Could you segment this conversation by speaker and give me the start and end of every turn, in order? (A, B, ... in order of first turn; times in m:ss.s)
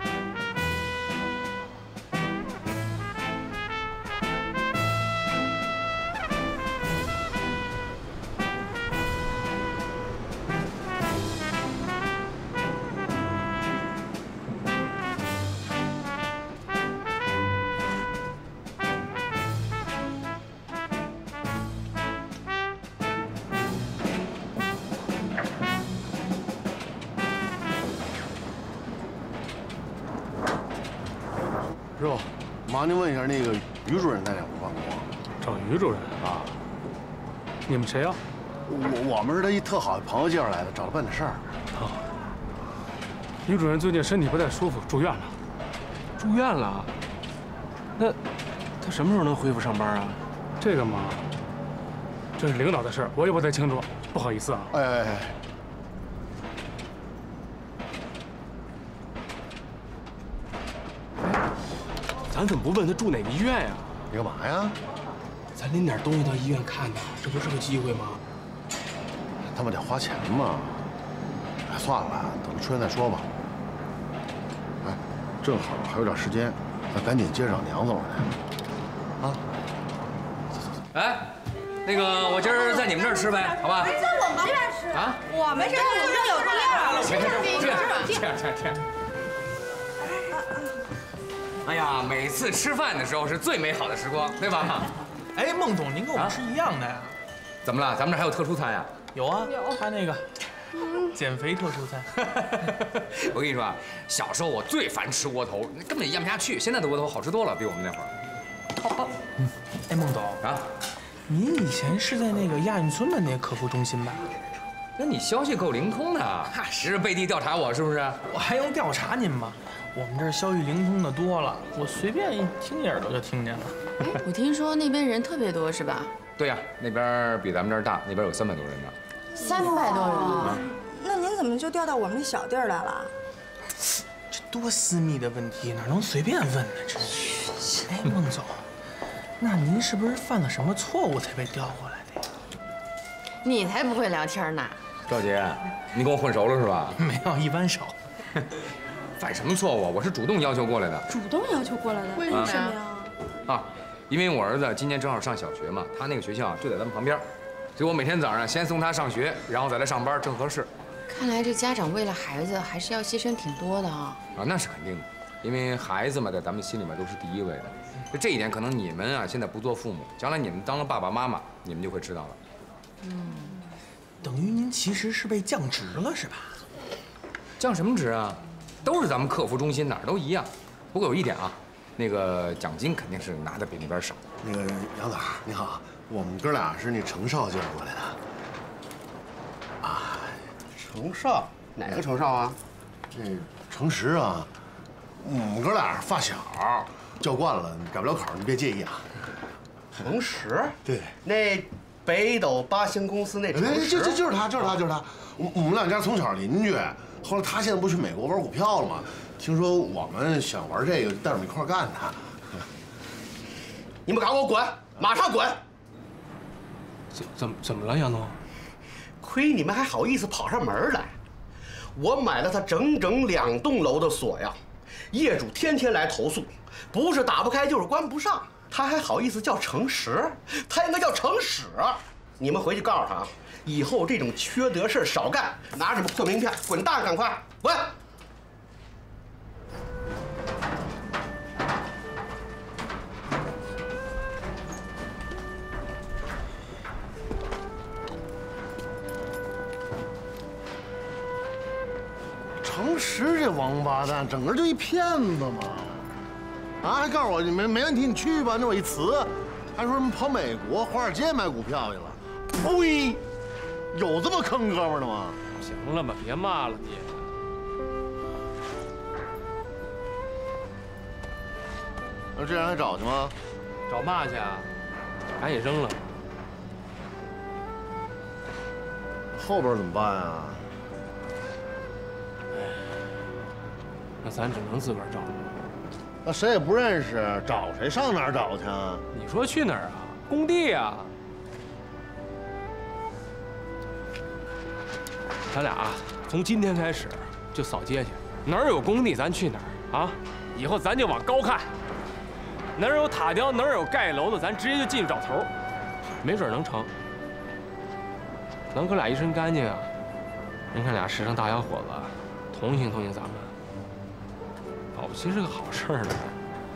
0:32.0-0:35.1 A
0:35.4-0:36.1 B
0:36.2-0:36.5 A
0:37.7-0:38.2 B
0:38.6-0:41.5 A
0:43.4-0:45.4 B
0:46.2-0:46.9 C
0:48.8-0:50.2 C
0:50.6-0:51.2 B
0:52.4-0:54.7 B
0:54.7-0:55.4 A
1:02.3-1:03.9 C
1:04.1-1:04.8 A
1:05.6-1:08.2 C
1:09.5-1:10.9 A
1:11.6-1:13.4 A
1:14.8-1:18.3 A
1:20.9-1:24.0 D
1:23.6-1:28.1 E
1:24.9-1:25.2 D
1:25.6-1:28.2 F
1:27.0-1:28.8 D
1:31.6-1:34.9 D
1:35.3-1:37.1 G
1:36.1-1:36.4 D
1:37.6-1:38.9 D
1:39.1-1:40.2 G
1:41.1-1:42.4 G
1:43.2-1:48.1 D
1:49.9-1:50.4 G
1:50.4-1:50.6 D
1:51.3-1:54.2 G
1:55.0-1:58.2 D
1:58.3-2:03.8 G
2:04.0-2:06.1 F
2:06.4-2:08.9 D
2:09.4-2:13.1 E
2:09.4-2:10.6 F
2:14.3-2:18.6 G
2:19.4-2:22.2 G
2:23.4-2:24.8 F
2:25.1-2:27.0 D
2:26.9-2:27.9 G
2:29.2-2:31.0 D
2:31.1-2:33.1 E
2:32.2-2:32.7 F
2:33.5-2:40.7 D
2:41.1-2:44.2 F
2:44.3-2:52.4 D
2:54.2-2:56.6 G
2:57.6-3:04.2 D
3:04.4-3:08.2 A
3:09.8-3:10.5 A
3:10.8-3:12.6 H
3:13.1-3:14.5 A
3:15.2-3:19.2 A
3:20.0-3:24.6 H
3:20.8-3:21.2 A
3:23.5-3:32.7 A
3:34.0-3:35.6 H
3:37.1-3:38.4 C
3:39.2-3:41.2 H
3:42.0-3:44.6 H
3:45.1-3:57.9 H
4:12.6-4:16.0 A
4:16.8-4:23.2 A
4:23.9-4:25.4 A
4:25.6-4:27.3 C
4:32.3-4:33.3 A
4:33.9-4:34.7 C
4:35.4-4:36.1 C
4:39.3-4:40.7 A
4:42.5-4:43.0 C
4:44.2-4:45.5 C
4:46.2-4:49.0 A
4:49.1-4:51.2 C
4:55.5-5:01.7 C
5:02.8-5:05.5 C
5:06.2-5:06.9 C
5:08.7-5:09.9 C
5:10.7-5:13.5 C
5:14.9-5:16.3 C